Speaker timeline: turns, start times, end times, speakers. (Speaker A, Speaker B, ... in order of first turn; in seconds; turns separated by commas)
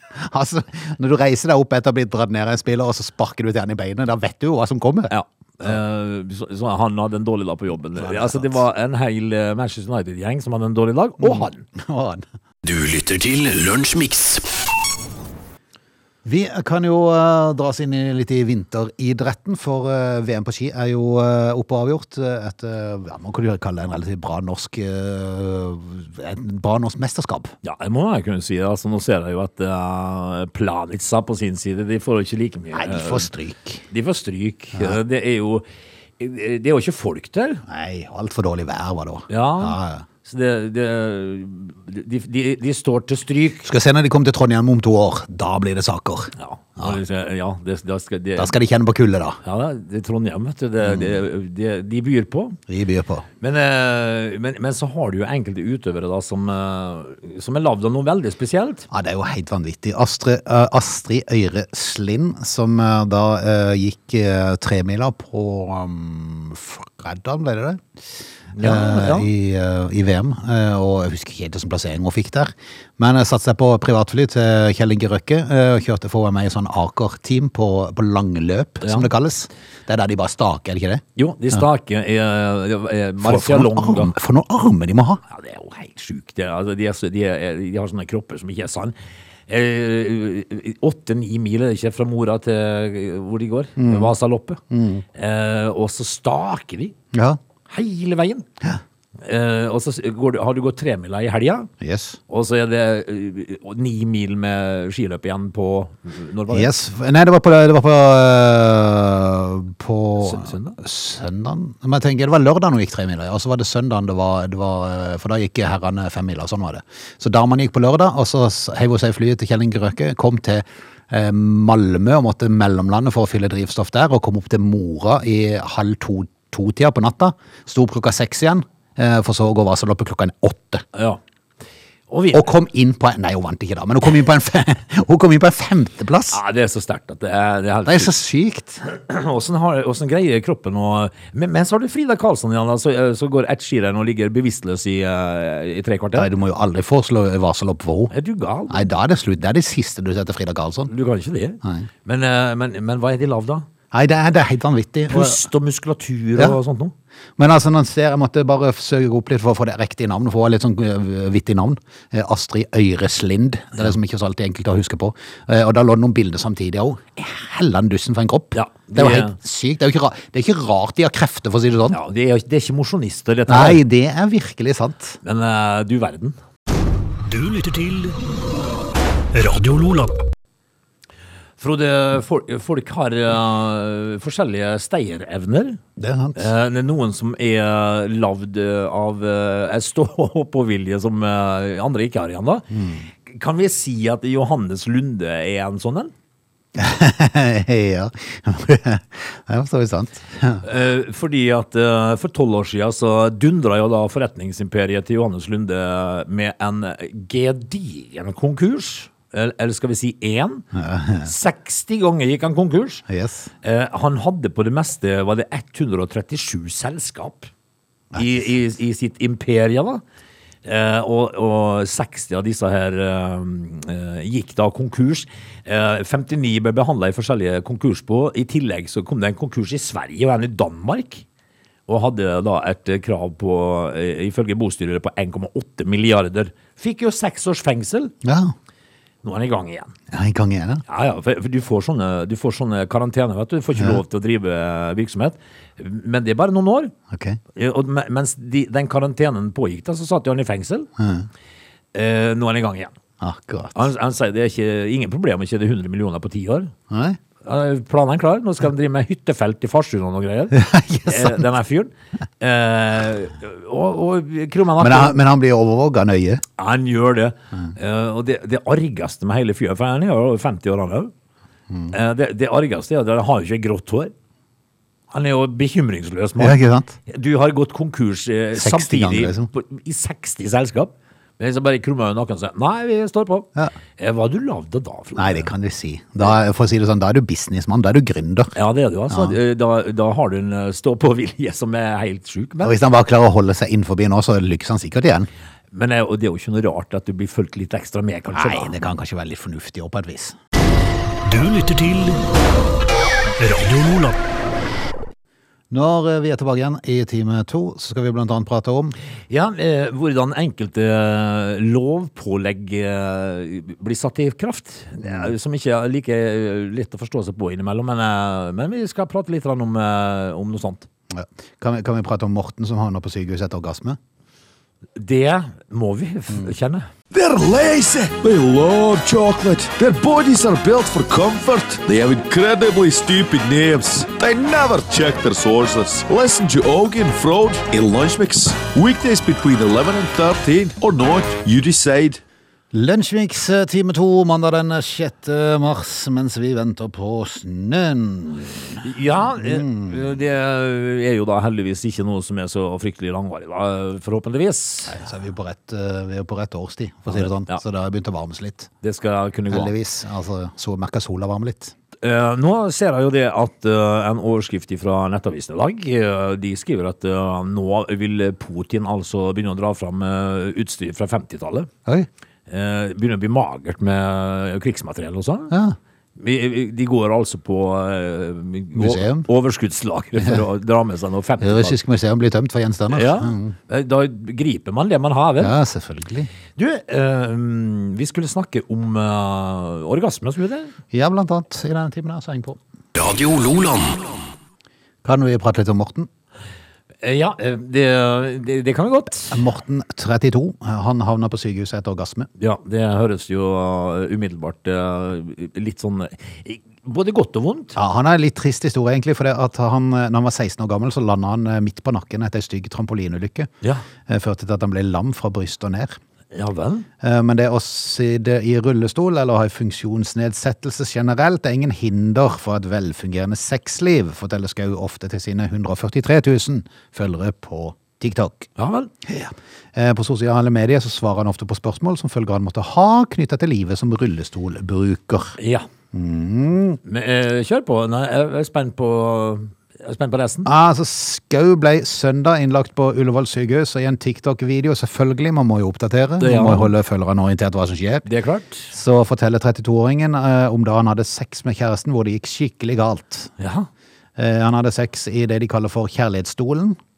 Speaker A: 0.2-5.1, Speaker B: 5.1-11.7, Speaker A: 8.0-8.6, Speaker A: 11.2-12.2, Speaker C: 12.6-14.5, Speaker A: 16.2-27.5, Speaker B: 27.6-33.3, Speaker A: 32.7-33.8, Speaker B: 33.9-35.7, Speaker B: 36.2-37.6, Speaker A: 37.7-40.1, Speaker B: 39.3-43.7, Speaker A: 43.6-47.0, Speaker B: 46.4-48.5, Speaker A: 48.4-49.4, Speaker B: 49.4-52.6, Speaker A: 50.8-51.1, Speaker A: 52.7-53.3, Speaker B: 53.4-58.9, Speaker A: 58.9-67.8, Speaker B: 68.6-69.3, Speaker A: 68.6-81.0, Speaker B: 78.8-79.1, Speaker B: 81.2-84.1, Speaker A: 83.2-85.2, Speaker B: 85.3-89.0, Speaker B: 89.5-94.6, Speaker A: 93.8-94.1, Speaker A: 94.7-95.0, Speaker B: 95.1-97.0, Speaker A: 97.1-97.4, Speaker B: 97.7-98.5, Speaker B: 99.2-101.7, Speaker A: 101.8-102.2, Speaker B: 102.3-106.7, Speaker A: 106.5-130.8, Speaker B: 110.2-110.8, Speaker B: 130.9-131.2, Speaker B: 132.1-132.5, Speaker A: 132.3-136.4, Speaker B: 136.3-138.2, Speaker A: 137.9-138.8, Speaker B: 138.8-146.3, Speaker A: 146.2-148.1, Speaker B: 148.1-148.8, Speaker A: 148.7-150.9, Speaker B: 150.9-153.7, Speaker A: 153.9-155.4, Speaker B: 155.1-156.9, Speaker A: 157.4-172.0, Speaker B: 168.6-169.4, Speaker B: 171.9-173.8, Speaker A: 173.5-175.2, Speaker B: 175.2-176.4, Speaker C: 177.3-178.2, Speaker C: 179.3-180.2, Speaker B: 181.6-185.8, Speaker A: 186.0-186.5, Speaker B: 186.4-192.7, Speaker A: 192.7-193.1, Speaker B: 193.2-196.1, Speaker A: 196.8-200.7, Speaker B: 200.6-210.7, Speaker A: 210.7-211.3, Speaker B: 211.2-213.0, Speaker A: 213.1-213.5, Speaker B: 213.6-217.5, Speaker B: 218.2-220.0, Speaker B: 220.6-231.2, Speaker B: 231.9-238.1, Speaker A: 238.2-238.5, Speaker B: 239.2-239.9, Speaker A: 240.1-240.8, Speaker B: 240.9-246.9, Speaker A: 247.1-247.4, Speaker B: 247.5-250.9, Speaker A: 251.0-251.3, Speaker B: 251.9-252.9, Speaker A: 253.2-253.8, Speaker B: 253.8-256.7, Speaker A: 256.9-257.2, Speaker B: 257.4-265.2, Speaker A: 260.5-261.5, Speaker A: 264.8-266.4, Speaker B: 266.6-271.1, Speaker B: 271.9-274.1, Speaker B: 275.1-285.5, Speaker A: 276.4-277.0, Speaker A: 278.6-279.5, Speaker A: 285.2-288.6, Speaker B: 288.6-292.8, Speaker A: 289.1-289.4, Speaker A: 292.6-295.3, Speaker B: 295.7-298.8, Speaker A: 298.3-300.4, Speaker C: 301.2-302.2, Speaker C: 303.4-304.2, Speaker A: 305.7-308.9, Speaker B: 309.3-320.9, Speaker A: 321.1-324.0, Speaker B: 324.9-326.9, Speaker D: 327.1-342.2, Speaker A: 342.7-348.8, Speaker B: 348.8-355.0, Speaker A: 349.4-350.0, Speaker A: 354.9-358.7, Speaker B: 357.1-357.6, Speaker B: 358.8-359.7, Speaker A: 359.5-361.7, Speaker B: 362.0-371.7, Speaker B: 372.5-375.5, Speaker A: 375.5-375.8, Speaker B: 376.2-381.8, Speaker A: 378.8-379.3, Speaker A: 381.4-383.6, Speaker B: 382.9-385.6, Speaker A: 385.4-386.3, Speaker B: 386.6-390.7, Speaker A: 390.9-392.6, Speaker C: 392.9-394.2, Speaker A: 395.0-396.1, Speaker B: 397.0-399.4, Speaker A: 399.3-402.3, Speaker B: 402.4-407.8, Speaker A: 407.8-413.5, Speaker A: 414.1-416.0, Speaker B: 416.3-416.9, Speaker A: 417.0-428.5, Speaker B: 428.6-428.9, Speaker A: 429.1-435.4, Speaker B: 435.4-435.7, Speaker A: 435.9-436.8, Speaker B: 436.9-440.5, Speaker A: 440.4-448.1, Speaker B: 446.2-446.7, Speaker B: 448.1-448.7, Speaker A: 448.7-453.3, Speaker B: 453.4-453.7, Speaker A: 454.2-456.8